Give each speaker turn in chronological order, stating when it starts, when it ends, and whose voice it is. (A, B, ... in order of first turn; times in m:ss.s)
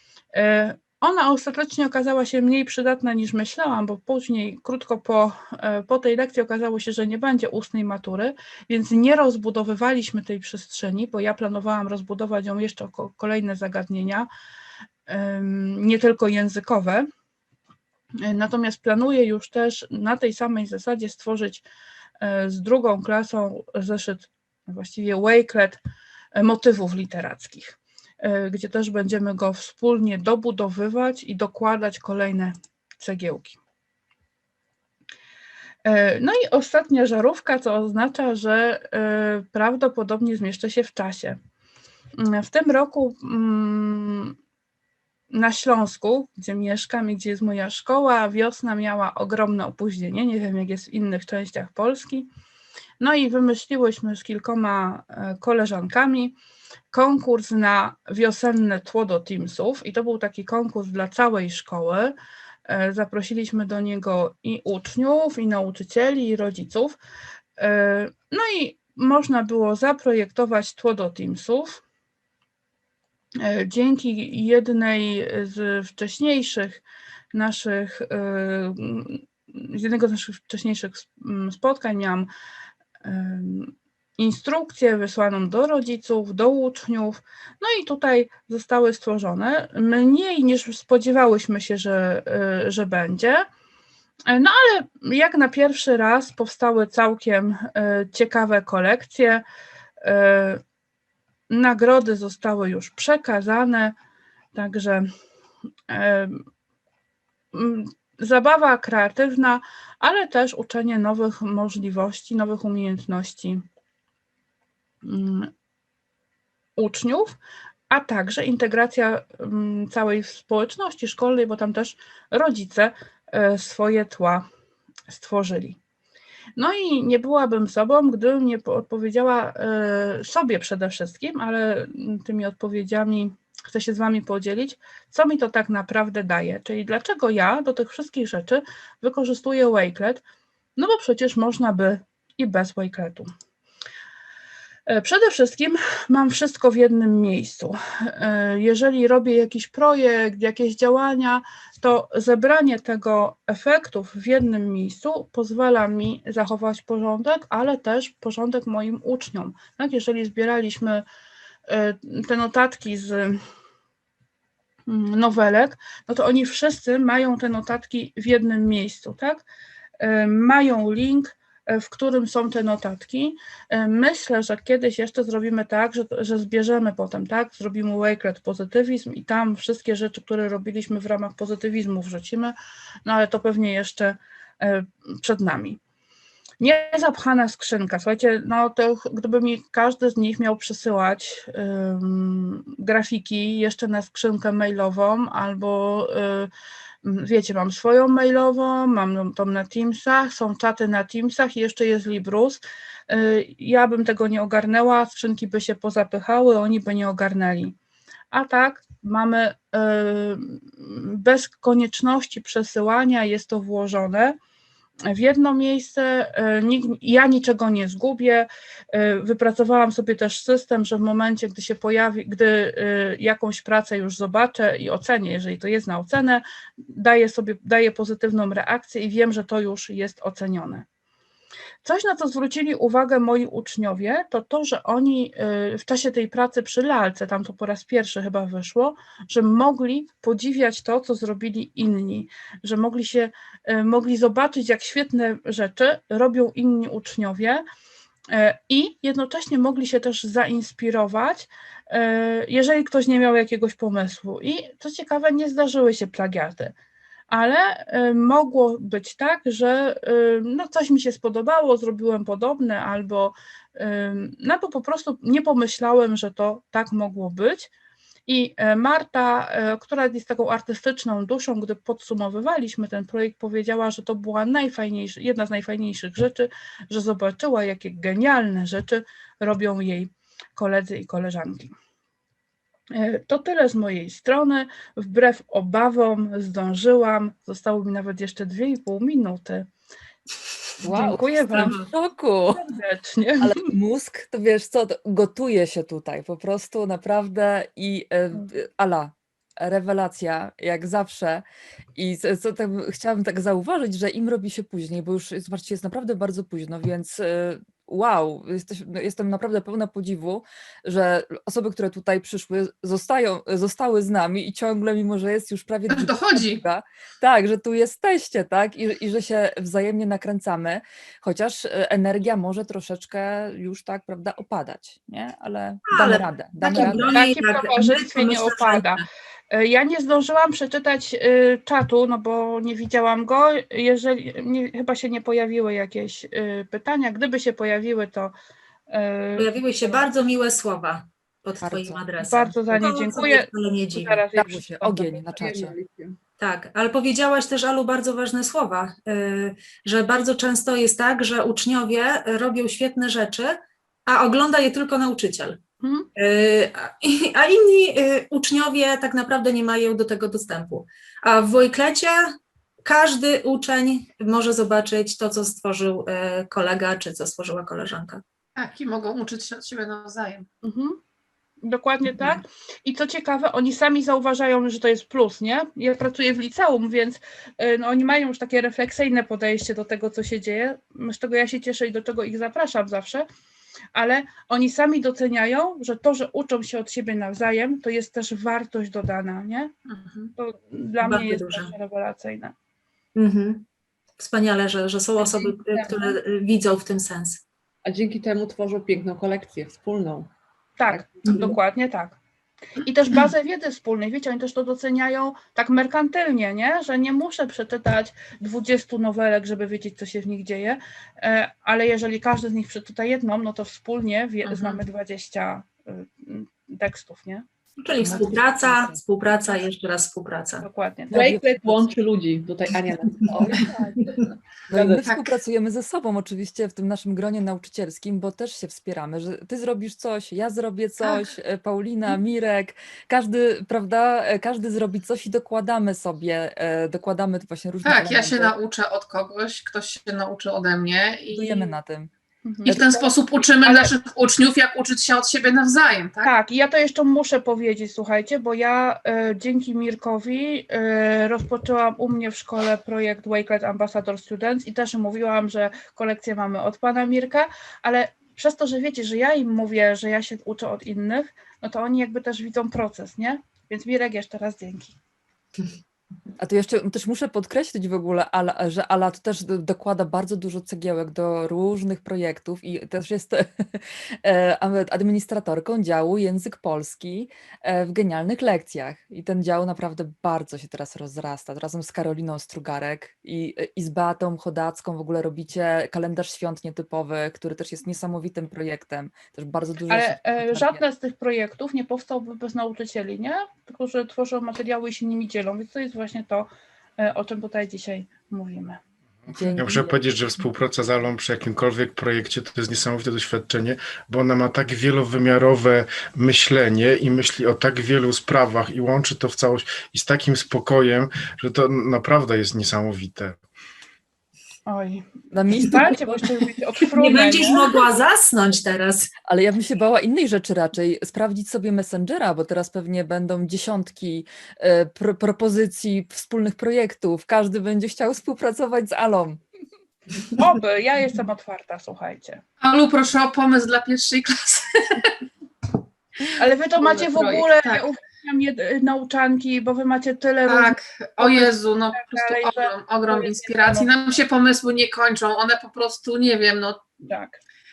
0:00.3-0:14.3 A
0:15.1-0:17.1 A
0:18.2-0:21.6 A
0:22.2-0:25.8 A
0:26.3-0:33.6 A
0:35.8-0:41.4 A
0:42.2-0:44.4 A
0:45.3-0:52.3 A
0:53.0-0:56.4 A
0:56.9-1:02.1 A
1:02.6-1:07.0 A
1:07.6-1:11.8 A
1:13.4-1:22.3 A
1:23.0-1:33.4 A
1:34.3-1:39.4 A
1:40.0-1:40.6 A
1:41.5-1:43.9 A
1:44.5-1:45.1 A
1:45.9-1:46.4 A
1:47.5-1:53.6 A
1:55.0-1:55.5 A
1:56.8-1:57.4 A
1:57.9-2:04.4 A
2:05.1-2:05.8 A
2:06.6-2:20.2 A
2:20.8-2:23.3 A
2:24.9-2:41.0 A
2:41.7-2:43.4 A
2:44.9-2:49.4 A
2:50.0-3:05.8 A
3:06.6-3:16.5 A
3:17.0-3:27.8 A
3:28.3-3:34.4 A
3:35.1-3:50.8 A
3:51.8-4:07.6 A
4:08.3-4:16.7 A
4:17.3-4:27.7 A
4:28.3-4:41.7 A
4:42.9-4:49.7 A
4:50.8-4:51.8 A
4:50.8-4:52.7 B
4:52.5-4:53.7 A
4:53.4-5:01.4 B
5:01.9-5:27.2 B
5:15.9-5:16.6 C
5:25.9-5:29.0 D
5:26.7-5:38.3 A
5:38.9-5:40.0 A
5:39.4-5:44.2 D
5:41.6-5:42.0 B
5:42.2-5:45.4 A
5:44.3-5:45.7 B
5:45.4-5:46.2 E
5:46.4-5:55.6 D
5:55.8-5:56.1 A
5:56.1-6:08.2 D
6:08.6-6:10.5 C
6:10.6-6:11.0 A
6:11.6-6:23.2 A
6:23.9-6:29.7 A
6:29.9-6:30.3 C
6:30.4-6:32.5 A
6:31.0-6:31.7 D
6:33.1-6:33.6 D
6:34.2-6:37.4 D
6:35.2-6:36.1 A
6:37.8-6:40.3 E
6:40.8-6:42.2 A
6:40.9-6:41.6 E
6:42.8-6:57.4 A
6:57.8-7:00.6 D
6:58.0-6:59.0 B
7:00.6-7:01.5 A
7:01.1-7:01.9 B
7:01.1-7:05.1 E
7:03.0-7:03.8 B
7:03.5-7:04.1 A
7:04.7-7:18.5 B
7:05.0-7:05.3 C
7:17.8-7:21.7 C
7:21.3-7:22.1 B
7:22.4-7:23.1 A
7:22.6-7:22.9 B
7:22.7-7:26.3 C
7:23.6-7:23.9 A
7:26.2-7:45.0 A
7:46.4-8:10.8 B
8:09.9-8:18.8 A
8:19.2-8:33.4 F
8:19.3-8:20.1 B
8:34.6-8:37.7 A
8:35.3-8:36.2 B
8:36.9-8:39.1 D
8:39.3-8:49.4 B
8:50.3-8:52.4 A
8:52.6-8:55.1 C
8:56.3-9:03.9 A
8:56.8-8:57.9 C
9:00.5-9:06.9 C
9:07.0-9:07.4 A